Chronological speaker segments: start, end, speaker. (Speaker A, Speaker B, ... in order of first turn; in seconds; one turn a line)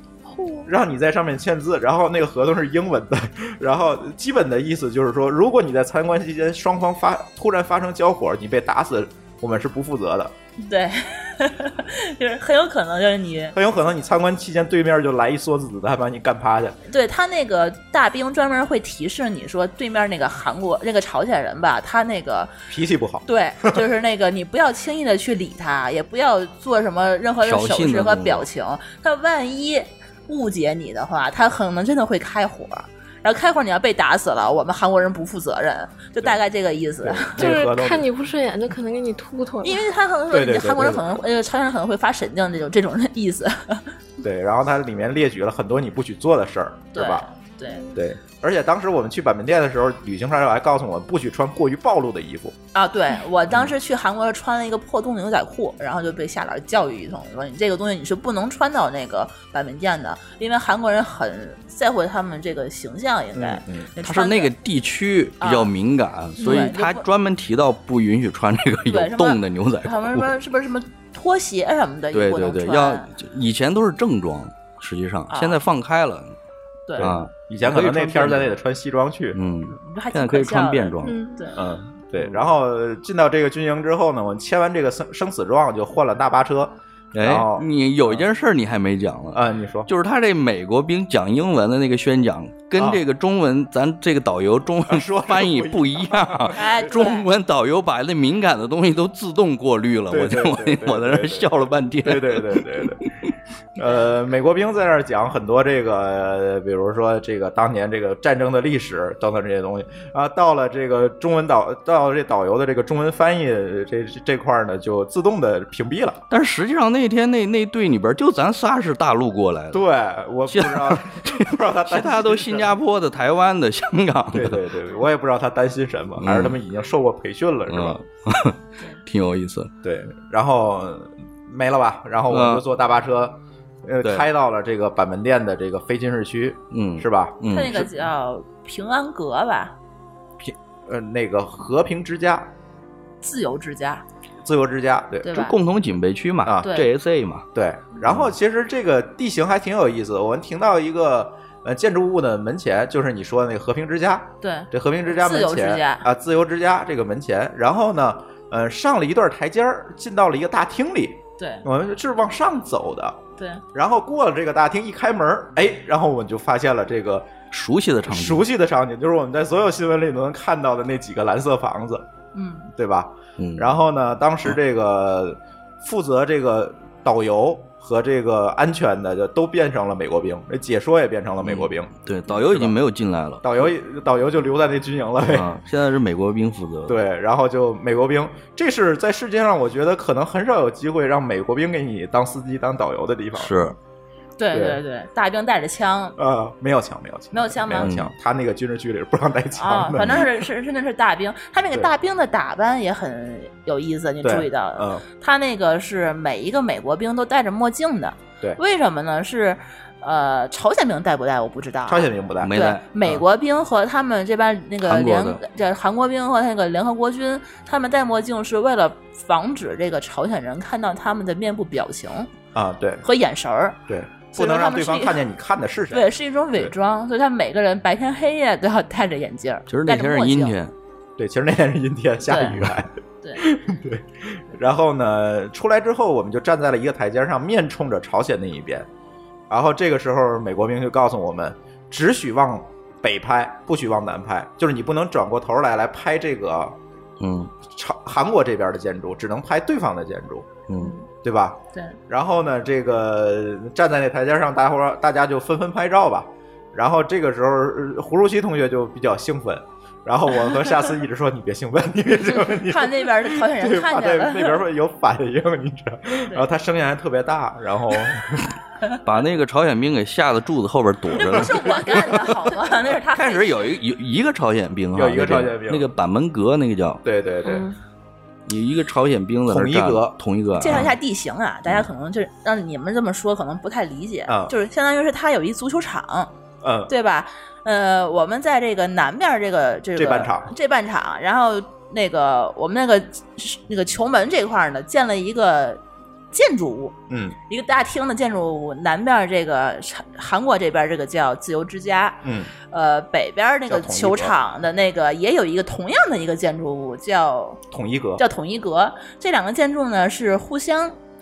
Speaker A: 0.3-0.7
Speaker B: 0.7-10.3
Speaker C: 10.6-13.6
Speaker B: 13.5-16.8
Speaker C: 16.9-22.5
Speaker B: 22.7-23.8
Speaker C: 23.2-37.5
Speaker D: 27.4-28.5
Speaker B: 37.0-38.1
Speaker A: 37.4-39.8
Speaker C: 39.6-43.9
Speaker B: 40.3-41.1
Speaker B: 44.2-47.3
Speaker C: 46.9-47.9
Speaker B: 47.9-52.5
Speaker C: 52.7-64.5
Speaker B: 63.3-63.9
Speaker D: 64.0-70.3
Speaker C: 65.4-65.7
Speaker C: 66.4-67.0
Speaker A: 66.4-66.7
Speaker C: 68.9-73.1
Speaker D: 72.1-76.3
Speaker C: 75.3-75.6
Speaker D: 77.0-78.5
Speaker B: 77.0-79.4
Speaker D: 79.3-81.2
Speaker C: 79.7-81.6
Speaker A: 81.0-81.4
Speaker B: 81.5-88.2
Speaker D: 87.1-102.9
Speaker B: 89.3-89.9
Speaker B: 92.8-93.0
Speaker B: 94.9-96.9
Speaker C: 96.5-97.2
Speaker B: 100.1-101.5
Speaker B: 102.0-103.1
Speaker B: 103.8-116.2
Speaker D: 116.3-119.8
Speaker B: 119.7-122.7
Speaker D: 120.5-124.6
Speaker B: 124.3-128.0
Speaker D: 126.2-126.6
Speaker D: 127.7-129.7
Speaker B: 129.8-137.8
Speaker D: 132.3-132.6
Speaker D: 136.7-137.9
Speaker C: 137.5-139.8
Speaker B: 140.4-142.5
Speaker C: 143.2-144.0
Speaker B: 144.4-145.3
Speaker C: 145.2-145.5
Speaker D: 145.3-147.4
Speaker B: 146.4-146.7
Speaker B: 147.5-163.2
Speaker C: 154.4-156.1
Speaker C: 161.4-161.6
Speaker C: 163.4-163.6
Speaker B: 163.7-167.3
Speaker D: 167.5-168.5
Speaker B: 168.1-172.1
Speaker C: 172.3-172.7
Speaker B: 172.8-182.8
Speaker D: 173.4-173.8
Speaker D: 181.4-183.7
Speaker B: 183.4-185.5
Speaker D: 185.2-187.0
Speaker B: 186.9-193.7
Speaker D: 193.3-193.8
Speaker C: 194.4-196.2
Speaker B: 194.5-194.8
Speaker B: 196.2-200.4
Speaker C: 197.3-197.9
Speaker D: 197.8-198.1
Speaker C: 199.5-222.3
Speaker B: 204.2-205.0
Speaker B: 211.9-212.6
Speaker D: 212.4-212.8
Speaker D: 214.8-215.4
Speaker B: 222.5-223.0
Speaker C: 223.0-223.8
Speaker B: 223.9-226.7
Speaker C: 224.3-225.2
Speaker C: 225.9-230.6
Speaker D: 229.7-230.7
Speaker B: 231.2-238.9
Speaker C: 232.3-232.6
Speaker B: 239.5-246.8
Speaker D: 247.2-247.5
Speaker B: 247.7-250.6
Speaker D: 250.7-250.9
Speaker B: 251.2-268.4
Speaker C: 262.6-264.6
Speaker D: 269.0-272.0
Speaker C: 271.1-273.7
Speaker D: 273.1-277.0
Speaker B: 274.9-275.9
Speaker B: 277.0-277.6
Speaker A: 277.5-277.7
Speaker D: 278.5-280.9
Speaker B: 279.5-280.1
Speaker C: 280.6-286.3
Speaker B: 284.3-284.5
Speaker B: 286.6-286.9
Speaker C: 286.9-295.8
Speaker B: 289.9-290.5
Speaker C: 296.3-296.9
Speaker B: 297.1-297.4
Speaker C: 297.5-307.6
Speaker B: 302.2-302.5
Speaker B: 303.7-304.3
Speaker B: 307.7-308.2
Speaker C: 308.2-310.9